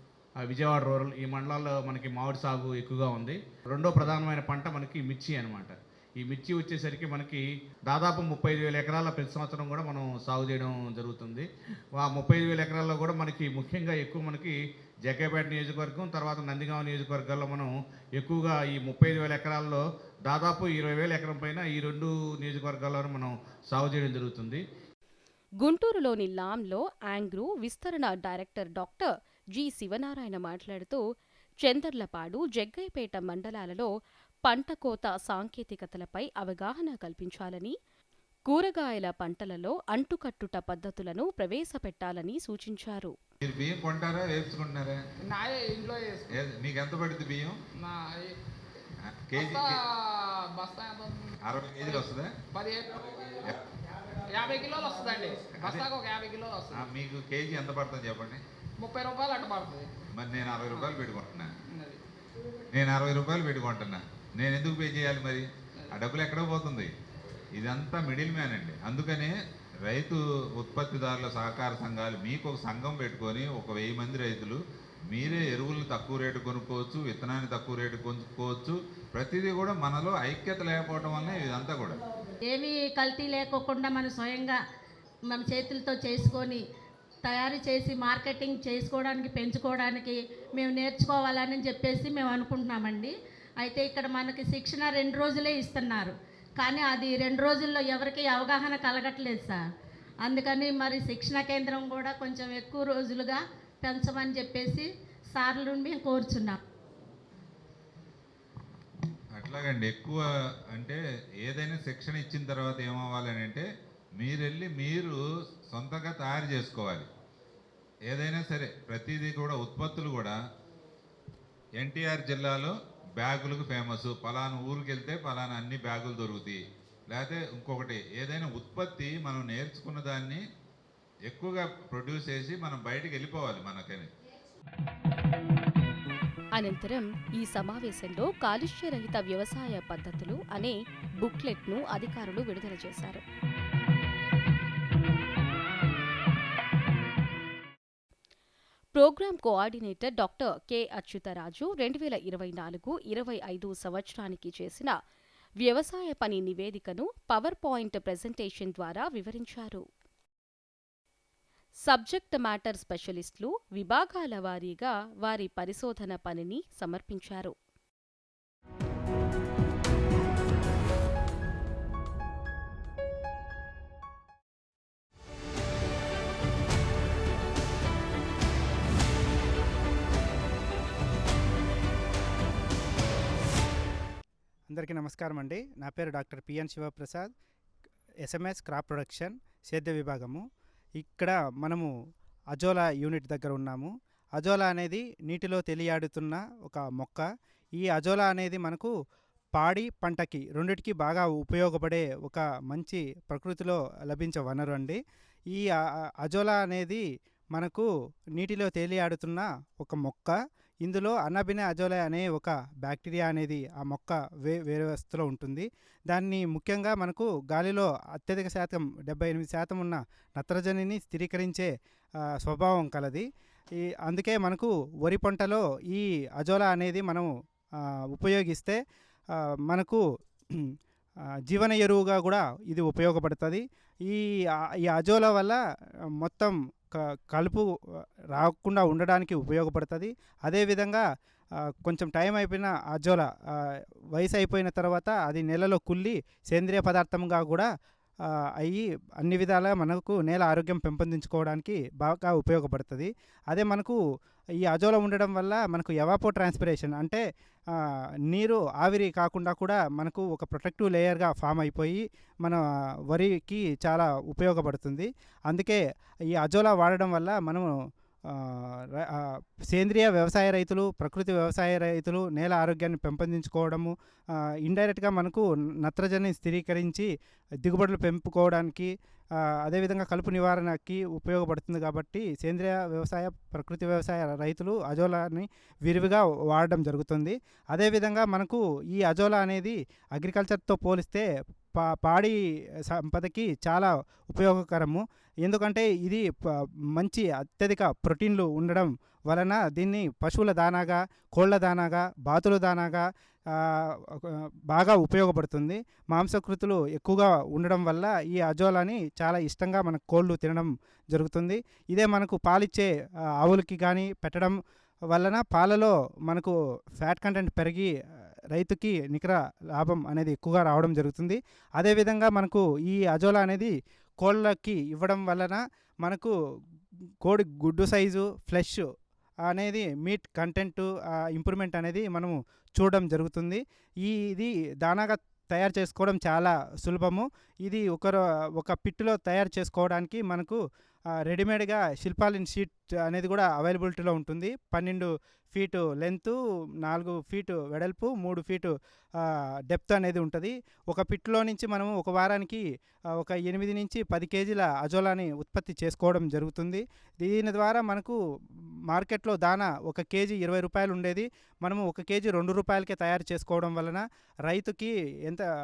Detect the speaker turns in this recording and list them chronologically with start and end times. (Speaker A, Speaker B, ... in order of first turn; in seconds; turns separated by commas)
Speaker A: 0.4-24.6, Speaker B: 25.6-31.0, Speaker B: 31.6-33.9, Speaker B: 34.5-37.7, Speaker B: 38.5-43.1, Speaker C: 43.4-45.0, Speaker D: 45.2-46.3, Speaker C: 46.3-47.6, Speaker D: 47.8-48.3, Speaker C: 49.0-49.7, Speaker D: 49.3-49.8, Speaker D: 50.6-53.6, Speaker C: 51.4-52.3, Speaker D: 54.3-56.9, Speaker C: 55.6-55.8, Speaker C: 56.7-58.4, Speaker D: 58.8-59.9, Speaker C: 60.2-61.5, Speaker D: 60.7-61.0, Speaker D: 61.7-62.0, Speaker C: 62.7-66.9, Speaker C: 67.5-82.0, Speaker E: 82.5-84.6, Speaker E: 85.3-86.6, Speaker E: 87.2-99.6, Speaker E: 100.2-106.6, Speaker C: 109.3-115.2, Speaker C: 115.7-117.1, Speaker C: 118.1-120.4, Speaker C: 121.8-130.4, Speaker C: 131.3-134.1, Speaker B: 136.6-143.2, Speaker B: 148.9-154.9, Speaker B: 155.6-159.8, Speaker B: 161.9-167.5, Speaker F: 184.7-187.3, Speaker F: 188.2-190.4, Speaker F: 191.0-191.9, Speaker F: 192.5-197.2, Speaker F: 197.8-198.9, Speaker F: 199.6-205.0, Speaker F: 206.2-207.0, Speaker F: 207.5-207.9, Speaker F: 208.4-221.7, Speaker F: 222.4-223.3, Speaker F: 223.8-227.3, Speaker F: 228.1-228.8, Speaker F: 229.7-230.0, Speaker F: 231.5-234.2, Speaker F: 234.8-235.6, Speaker F: 236.2-237.7, Speaker F: 238.3-241.0, Speaker F: 241.8-247.7, Speaker F: 248.6-254.0, Speaker F: 254.6-257.2, Speaker F: 258.3-265.8, Speaker F: 266.3-267.7, Speaker F: 268.3-273.9, Speaker F: 274.6-277.1, Speaker F: 277.6-278.9, Speaker F: 279.6-291.2, Speaker F: 291.8-292.4, Speaker F: 292.9-296.2, Speaker F: 297.0-312.9, Speaker F: 313.4-314.6, Speaker F: 315.1-317.9, Speaker F: 318.5-326.3, Speaker F: 327.2-328.8, Speaker F: 329.5-340.6, Speaker F: 341.3-352.6, Speaker F: 353.2-358.2, Speaker F: 358.9-365.4